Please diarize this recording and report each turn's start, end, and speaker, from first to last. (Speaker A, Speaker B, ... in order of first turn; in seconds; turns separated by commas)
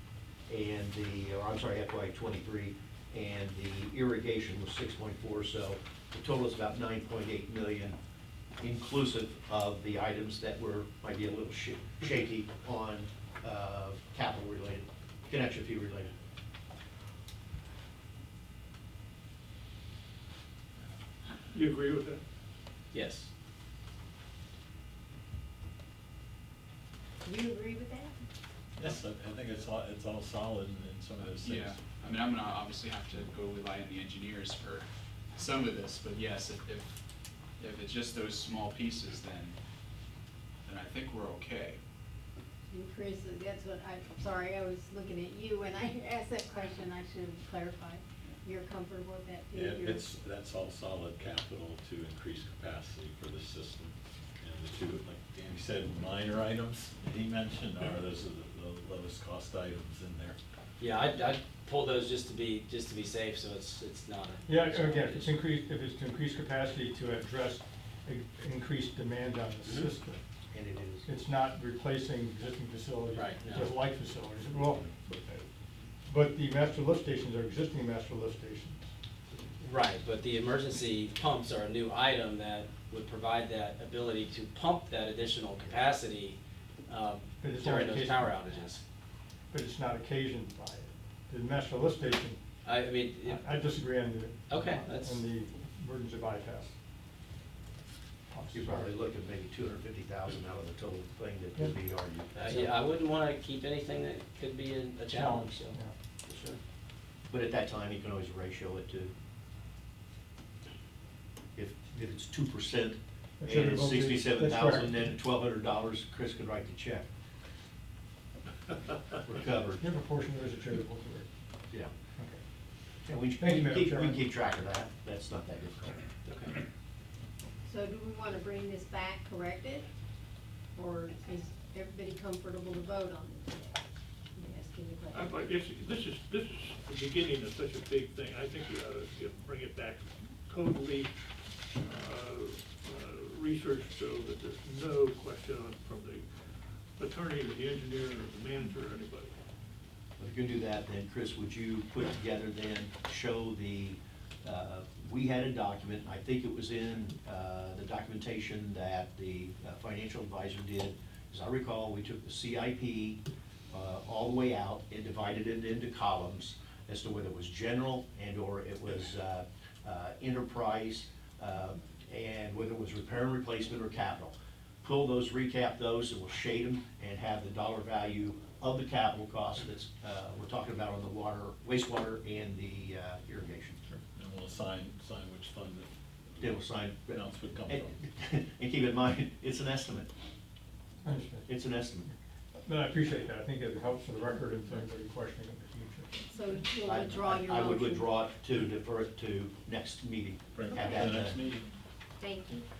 Speaker A: 0.5-8.0, Speaker A: 8.6-16.1, Speaker B: 21.5-22.2, Speaker C: 22.9-23.3, Speaker D: 27.2-28.2, Speaker E: 28.8-31.8, Speaker F: 31.4-36.9, Speaker F: 37.6-39.6, Speaker F: 40.6-41.8, Speaker D: 42.7-50.1, Speaker E: 49.5-60.4, Speaker C: 60.8-65.4, Speaker G: 64.5-70.2, Speaker A: 70.5-71.1, Speaker G: 71.0-75.5, Speaker C: 73.2-73.7, Speaker G: 76.1-78.9, Speaker C: 79.6-86.4, Speaker C: 86.9-88.8, Speaker G: 87.4-88.3, Speaker G: 89.5-92.4, Speaker C: 92.6-93.5, Speaker G: 93.2-96.8, Speaker C: 94.5-95.2, Speaker G: 98.3-98.9, Speaker A: 98.5-102.7, Speaker C: 102.3-106.6, Speaker G: 105.1-105.9, Speaker A: 107.3-109.1, Speaker A: 111.6-117.1, Speaker G: 113.4-115.1, Speaker A: 119.2-119.8, Speaker G: 119.8-121.3, Speaker A: 123.1-126.0, Speaker G: 123.4-124.2, Speaker C: 126.3-126.5, Speaker D: 127.7-129.9, Speaker D: 130.8-133.8, Speaker D: 134.4-135.4, Speaker B: 135.1-141.1, Speaker B: 141.7-146.3, Speaker B: 147.0-149.3, Speaker A: 150.2-183.8, Speaker E: 184.1-187.9, Speaker A: 186.4-190.1, Speaker G: 191.0-191.5, Speaker A: 191.5-192.1, Speaker G: 192.7-196.2, Speaker D: 196.3-198.1, Speaker A: 196.8-201.4, Speaker E: 200.6-201.7, Speaker D: 202.2-202.6